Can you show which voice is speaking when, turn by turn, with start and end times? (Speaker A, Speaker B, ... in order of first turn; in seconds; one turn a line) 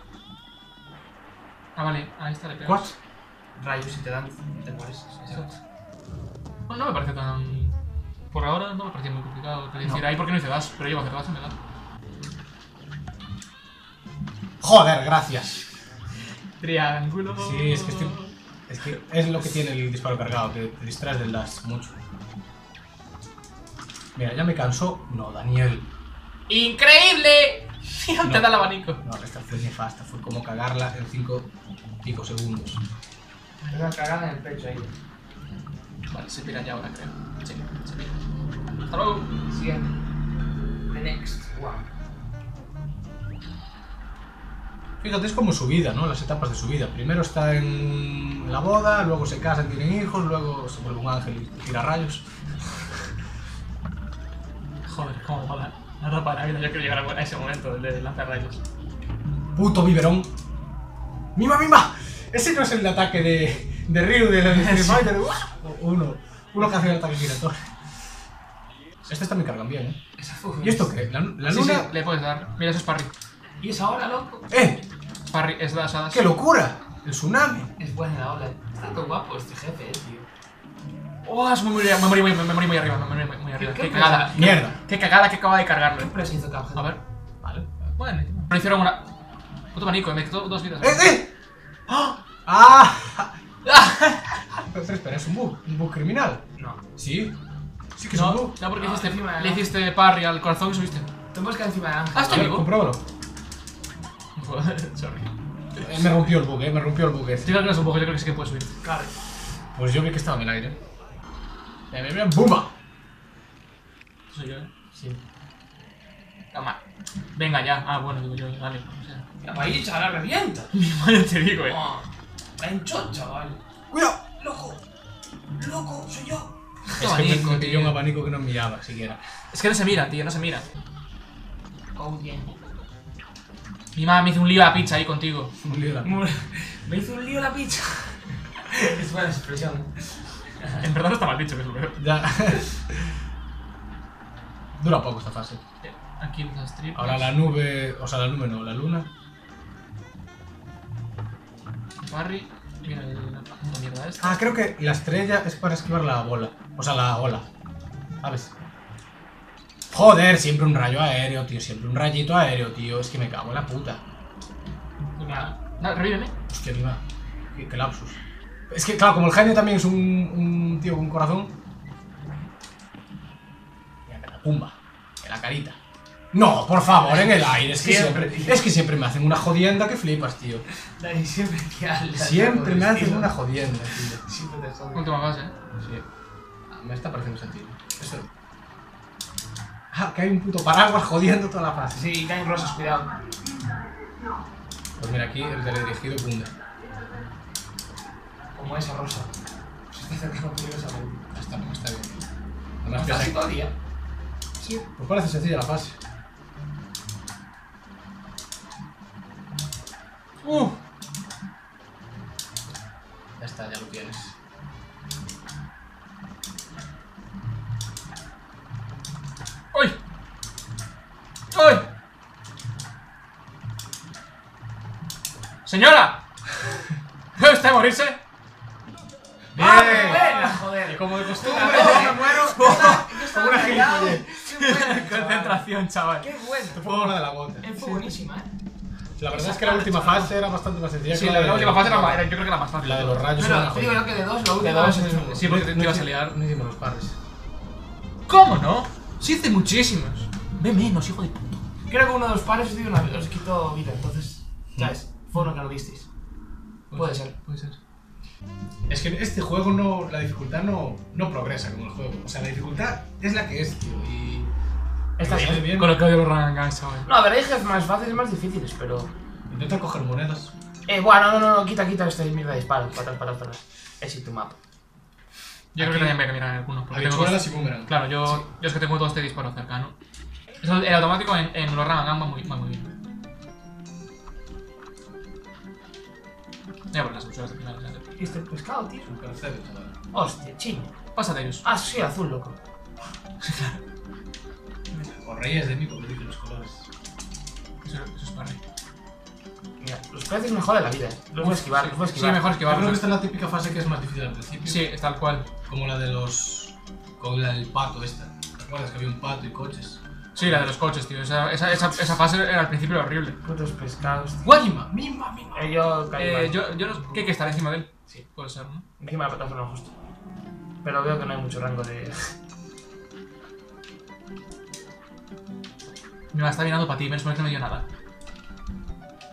Speaker A: 1.7-2.9
Speaker B: 2.6-2.9
Speaker C: 3.6-5.4
Speaker A: 5.3-5.5
Speaker A: 6.7-7.7
Speaker A: 8.3-11.5
Speaker B: 14.6-15.6
Speaker A: 16.6-18.3
Speaker B: 17.4-18.2
Speaker B: 18.7-22.0
Speaker B: 24.1-25.9
Speaker A: 26.5-29.0
Speaker B: 28.2-31.5
Speaker B: 32.0-32.8
Speaker C: 33.7-34.9
Speaker A: 36.1-38.1
Speaker A: 38.9-39.3
Speaker C: 39.5-39.9
Speaker C: 40.9-41.9
Speaker B: 45.0-52.2
Speaker A: 54.9-58.6
Speaker B: 59.5-60.3
Speaker B: 61.3-67.7
Speaker A: 64.5-65.1
Speaker B: 69.0-70.0
Speaker C: 70.2-70.9
Speaker B: 70.6-71.9
Speaker A: 71.4-73.1
Speaker C: 73.6-74.5
Speaker B: 74.5-74.8
Speaker A: 75.3-76.3
Speaker B: 76.1-77.7
Speaker C: 77.8-80.3
Speaker A: 81.2-86.2
Speaker C: 83.6-84.6
Speaker B: 84.3-84.8
Speaker C: 85.9-86.9
Speaker A: 86.7-87.0
Speaker B: 87.4-87.7
Speaker A: 88.0-89.0
Speaker A: 89.7-91.2
Speaker B: 90.8-91.3
Speaker A: 91.9-92.2
Speaker B: 92.4-93.3
Speaker A: 93.6-94.4
Speaker B: 94.7-96.4
Speaker B: 97.0-97.3
Speaker B: 98.0-98.5
Speaker A: 98.1-101.1
Speaker C: 98.7-99.7
Speaker C: 101.3-102.5
Speaker A: 102.1-102.7
Speaker B: 102.3-103.0
Speaker A: 104.3-105.3
Speaker B: 105.8-107.5
Speaker A: 107.4-108.7
Speaker C: 108.8-109.1
Speaker B: 109.7-110.8
Speaker B: 111.9-112.7
Speaker A: 114.3-114.7
Speaker C: 114.9-115.2
Speaker A: 116.5-116.8
Speaker A: 117.3-119.2
Speaker C: 119.4-120.7
Speaker A: 120.7-121.8
Speaker C: 121.7-122.1
Speaker C: 122.6-123.6
Speaker B: 123.9-124.2
Speaker C: 124.4-124.8
Speaker C: 125.5-126.5
Speaker B: 127.0-129.2
Speaker A: 127.0-128.0
Speaker A: 129.5-130.6
Speaker C: 131.9-132.5
Speaker A: 133.9-135.5
Speaker B: 135.6-136.1
Speaker C: 136.0-140.8
Speaker A: 140.8-142.0
Speaker B: 142.0-142.9
Speaker B: 144.8-145.6
Speaker A: 145.8-147.4
Speaker B: 146.9-149.1
Speaker A: 152.0-154.4
Speaker B: 154.2-157.5
Speaker B: 158.2-158.5
Speaker B: 159.9-164.0
Speaker A: 165.2-166.3
Speaker C: 165.2-165.5
Speaker B: 166.5-167.0
Speaker B: 167.5-168.2
Speaker B: 168.7-171.5
Speaker B: 174.1-175.8
Speaker B: 176.3-180.6
Speaker C: 176.8-178.6
Speaker C: 181.0-183.3
Speaker B: 182.2-184.2
Speaker C: 184.2-185.1
Speaker A: 184.9-185.5
Speaker B: 186.7-188.3
Speaker B: 189.9-192.1
Speaker C: 191.9-193.2
Speaker B: 195.0-196.5
Speaker C: 198.5-199.3
Speaker C: 199.9-201.2
Speaker B: 201.3-202.2
Speaker B: 202.8-203.3
Speaker C: 202.9-203.7
Speaker B: 204.9-206.0
Speaker A: 210.4-210.8
Speaker B: 213.4-214.3
Speaker A: 221.5-221.9
Speaker A: 225.6-226.2
Speaker A: 227.4-228.2
Speaker B: 229.5-234.2
Speaker C: 229.6-235.6
Speaker A: 229.6-237.1
Speaker C: 236.2-236.8
Speaker B: 236.8-237.7
Speaker C: 237.6-238.5
Speaker A: 237.8-238.1
Speaker B: 239.2-242.2
Speaker A: 239.3-240.3
Speaker C: 239.4-239.9
Speaker A: 241.1-243.3
Speaker B: 242.8-244.1
Speaker C: 243.3-245.4
Speaker A: 244.6-246.3
Speaker B: 244.6-247.2
Speaker A: 248.3-251.6
Speaker C: 251.9-256.1
Speaker A: 256.9-257.8
Speaker C: 256.9-257.3
Speaker B: 258.9-264.5
Speaker C: 265.2-265.6
Speaker B: 265.2-266.0
Speaker A: 265.3-267.1
Speaker C: 267.1-269.1
Speaker B: 269.5-270.5
Speaker C: 270.9-274.6
Speaker A: 275.7-279.9
Speaker B: 275.8-276.2
Speaker B: 276.9-278.4
Speaker A: 280.6-282.9
Speaker A: 286.9-288.4
Speaker C: 288.2-289.1
Speaker B: 289.0-289.9
Speaker C: 290.1-290.9
Speaker A: 291.1-291.6
Speaker C: 291.6-292.6
Speaker A: 293.4-293.8
Speaker B: 295.0-296.9
Speaker A: 297.8-298.6
Speaker C: 299.8-302.4
Speaker A: 301.4-303.1
Speaker B: 302.6-304.9
Speaker A: 304.6-305.5
Speaker B: 305.6-310.7
Speaker A: 310.3-313.4
Speaker B: 311.7-312.1
Speaker C: 313.4-314.4
Speaker B: 314.4-315.7
Speaker C: 315.5-316.6
Speaker A: 316.2-318.9
Speaker C: 319.0-319.9
Speaker C: 320.8-322.3
Speaker A: 326.3-327.8